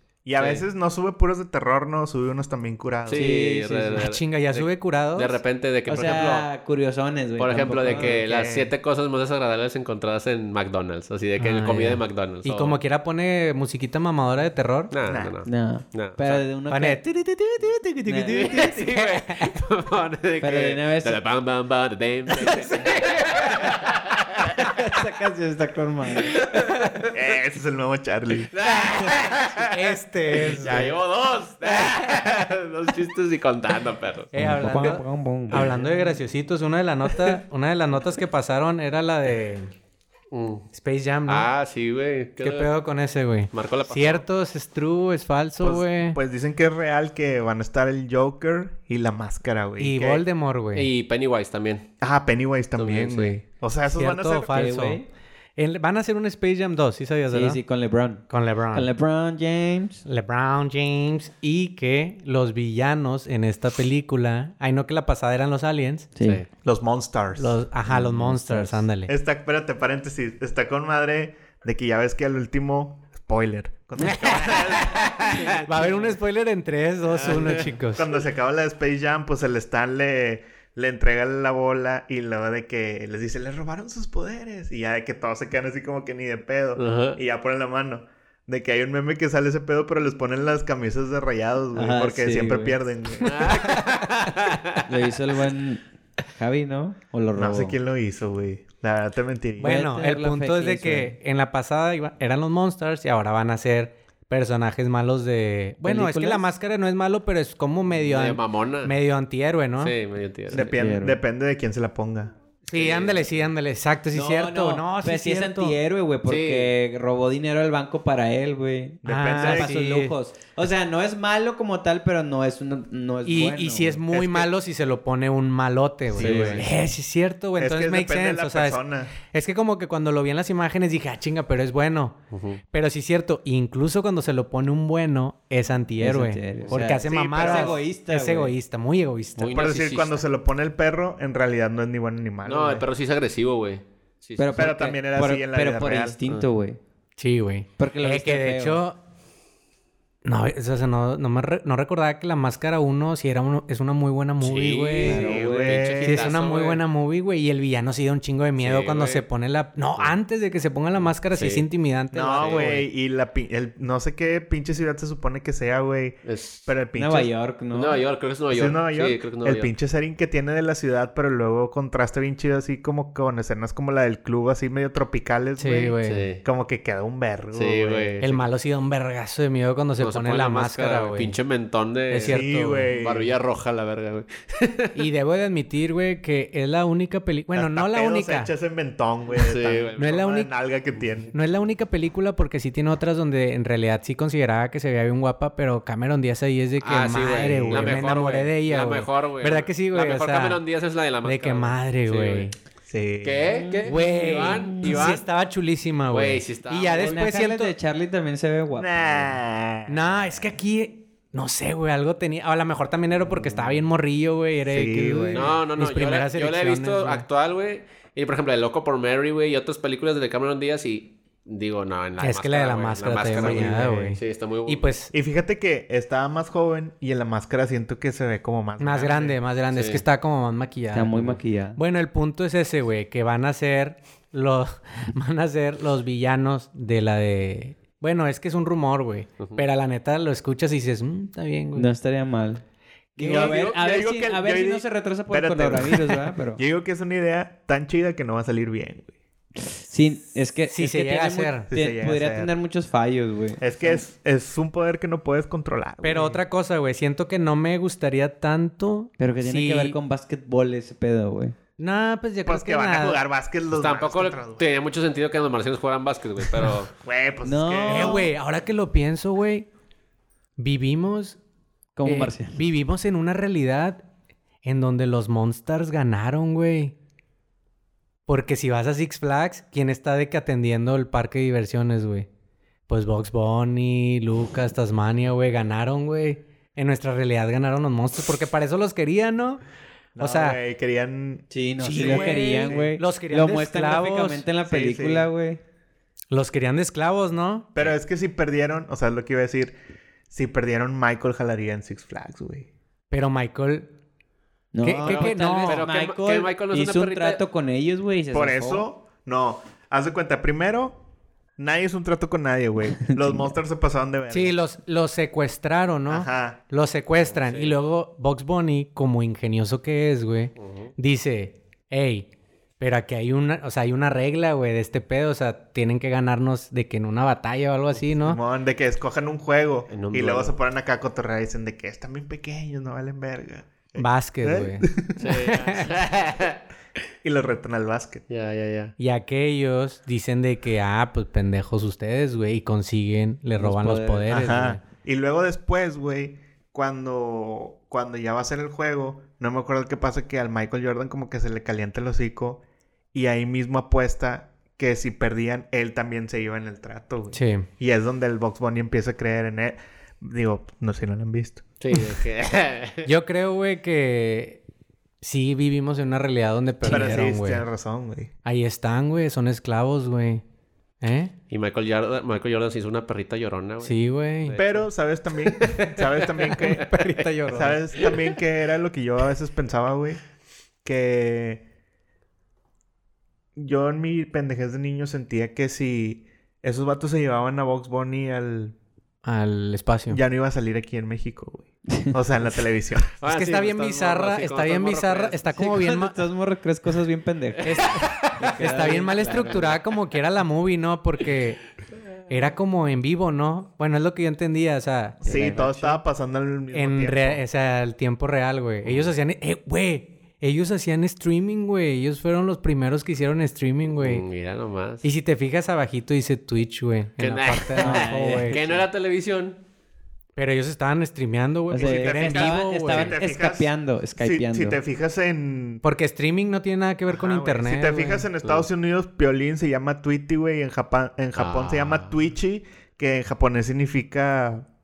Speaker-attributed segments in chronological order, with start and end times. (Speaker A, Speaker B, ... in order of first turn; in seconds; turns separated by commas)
Speaker A: 0.2-3.3, Speaker B: 0.4-0.7, Speaker B: 3.1-6.5, Speaker C: 3.1-4.1, Speaker D: 4.0-5.4, Speaker C: 5.9-8.2, Speaker B: 7.4-12.8, Speaker A: 7.9-8.7, Speaker D: 11.4-14.9, Speaker B: 14.9-16.4, Speaker A: 15.1-15.4, Speaker C: 15.5-17.0, Speaker D: 16.7-19.6, Speaker C: 18.1-18.9, Speaker B: 18.3-24.6, Speaker C: 20.4-21.2, Speaker C: 22.4-23.1, Speaker C: 24.4-26.5, Speaker B: 26.4-27.1, Speaker A: 27.1-28.5, Speaker B: 28.5-29.7, Speaker D: 29.6-30.9, Speaker B: 30.4-34.4, Speaker A: 30.6-30.9, Speaker D: 34.3-39.7, Speaker C: 34.4-36.1, Speaker B: 40.3-40.7, Speaker D: 40.7-41.5, Speaker B: 41.3-42.7, Speaker D: 42.4-46.2, Speaker B: 43.5-44.2, Speaker A: 45.6-50.2, Speaker D: 49.8-50.9, Speaker B: 50.7-51.9, Speaker A: 52.0-54.7, Speaker B: 52.8-53.4, Speaker D: 53.9-55.0, Speaker C: 54.5-55.1, Speaker D: 55.6-57.6, Speaker C: 57.3-60.0, Speaker D: 58.3-58.9, Speaker D: 60.1-66.1, Speaker C: 66.2-66.4, Speaker B: 66.2-66.5, Speaker A: 66.6-67.6, Speaker D: 67.4-69.1, Speaker C: 67.9-68.8, Speaker A: 69.1-75.6, Speaker D: 74.0-78.1, Speaker C: 75.5-75.9, Speaker A: 77.2-93.7, Speaker B: 77.3-77.7, Speaker B: 86.8-87.2, Speaker C: 91.7-92.8, Speaker B: 93.2-95.1, Speaker C: 94.9-95.8, Speaker C: 96.3-97.8, Speaker A: 97.3-99.8, Speaker D: 99.6-109.9, Speaker C: 99.6-101.2, Speaker C: 105.8-106.5, Speaker B: 108.0-108.9, Speaker B: 109.8-110.7, Speaker A: 110.5-112.3, Speaker C: 110.5-111.2, Speaker D: 112.7-115.8, Speaker B: 112.7-113.3, Speaker C: 114.1-124.0, Speaker B: 116.3-116.7, Speaker A: 119.0-119.8, Speaker D: 119.1-120.2, Speaker D: 123.2-132.2, Speaker A: 124.1-124.5, Speaker B: 126.2-126.7, Speaker C: 126.2-126.7, Speaker A: 126.2-126.7, Speaker A: 127.6-129.1, Speaker B: 132.3-132.6, Speaker D: 132.7-139.6, Speaker C: 136.0-138.5, Speaker A: 137.0-137.8, Speaker B: 139.4-140.2, Speaker A: 139.5-142.9, Speaker B: 142.4-144.8, Speaker C: 144.4-146.8, Speaker A: 144.5-146.2, Speaker D: 147.2-149.0, Speaker C: 147.8-148.8, Speaker D: 150.2-155.3, Speaker B: 154.4-156.8, Speaker C: 155.0-155.9, Speaker A: 155.0-156.3, Speaker D: 156.0-162.9, Speaker B: 158.6-159.2, Speaker B: 161.3-161.7, Speaker A: 162.1-167.3, Speaker B: 162.4-162.7, Speaker B: 166.2-166.7, Speaker C: 166.9-168.1, Speaker B: 167.7-169.7, Speaker A: 168.5-178.4, Speaker D: 175.6-176.3, Speaker B: 176.1-176.4, Speaker B: 177.5-178.3, Speaker D: 178.2-181.4, Speaker B: 180.0-185.0, Speaker D: 182.1-182.9, Speaker A: 182.2-183.3, Speaker D: 184.9-188.5, Speaker A: 187.5-191.3, Speaker B: 189.3-190.2, Speaker D: 190.0-190.5, Speaker D: 191.3-200.6, Speaker B: 196.8-202.5, Speaker D: 201.2-202.6, Speaker A: 202.9-203.6, Speaker B: 203.2-205.2, Speaker C: 203.5-205.1, Speaker D: 203.8-207.7, Speaker B: 206.1-207.2, Speaker C: 207.0-209.4, Speaker A: 208.8-210.5, Speaker D: 209.9-217.2, Speaker A: 214.7-215.6, Speaker B: 215.3-224.9, Speaker D: 222.2-225.1, Speaker A: 223.4-223.8, Speaker A: 225.1-229.4, Speaker D: 228.8-231.1, Speaker B: 229.7-230.0, Speaker C: 230.9-231.8, Speaker D: 231.8-241.9, Speaker C: 241.8-242.6, Speaker C: 243.2-246.6, Speaker D: 243.2-243.5, Speaker A: 243.2-249.1, Speaker C: 249.8-254.0, Speaker D: 250.7-251.7, Speaker A: 251.7-252.5, Speaker A: 253.6-256.4, Speaker D: 256.0-260.0, Speaker C: 259.2-261.6, Speaker D: 261.8-263.2, Speaker A: 262.5-264.7, Speaker B: 263.7-266.9, Speaker A: 267.0-268.3, Speaker C: 267.4-268.3, Speaker D: 267.9-269.7, Speaker D: 270.6-271.4, Speaker C: 272.0-272.6, Speaker D: 272.1-274.0, Speaker D: 274.6-276.9, Speaker D: 278.3-282.3, Speaker D: 282.9-289.6, Speaker A: 290.1-293.0, Speaker D: 290.2-290.6, Speaker C: 291.5-295.6, Speaker D: 291.8-294.4, Speaker A: 294.7-295.3, Speaker D: 296.3-297.9, Speaker A: 297.8-299.8, Speaker A: 300.3-302.7, Speaker D: 303.1-303.9, Speaker C: 304.7-308.9, Speaker D: 304.8-305.9, Speaker B: 305.0-307.4, Speaker A: 308.3-311.0, Speaker A: 311.6-314.6, Speaker C: 313.1-313.5, Speaker D: 314.3-322.3, Speaker A: 316.1-316.6, Speaker B: 317.3-317.8, Speaker B: 320.6-320.9, Speaker D: 322.8-328.4, Speaker A: 328.2-335.9, Speaker B: 329.9-330.6, Speaker D: 334.0-335.9, Speaker B: 335.2-336.6, Speaker A: 337.2-338.2, Speaker B: 338.3-338.9, Speaker D: 339.0-344.8, Speaker C: 343.6-344.3, Speaker A: 344.3-352.6, Speaker A: 353.1-361.6, Speaker D: 357.3-357.7, Speaker B: 361.8-363.1, Speaker D: 363.1-364.6, Speaker D: 365.2-367.7, Speaker A: 366.8-368.3, Speaker B: 366.9-367.2, Speaker D: 368.4-370.4, Speaker D: 371.0-371.3, Speaker B: 371.5-374.9, Speaker D: 373.8-374.6, Speaker A: 374.6-376.9, Speaker D: 375.7-377.8, Speaker B: 376.5-376.8, Speaker A: 377.5-380.2, Speaker A: 380.8-381.6, Speaker A: 383.6-388.8, Speaker D: 389.2-390.2, Speaker A: 390.1-393.1, Speaker B: 393.2-395.6, Speaker D: 393.2-396.2, Speaker C: 395.6-399.8, Speaker D: 397.6-401.6, Speaker B: 397.7-398.1, Speaker D: 402.3-406.0, Speaker A: 405.2-407.4, Speaker C: 405.2-405.8, Speaker D: 406.7-414.2, Speaker B: 408.9-409.1, Speaker B: 414.0-415.1, Speaker D: 415.0-418.6, Speaker B: 417.2-419.6, Speaker C: 417.8-418.8, Speaker D: 420.4-423.1, Speaker C: 421.7-424.8, Speaker A: 421.8-425.8, Speaker D: 425.8-428.3, Speaker A: 427.1-434.7, Speaker B: 431.4-432.2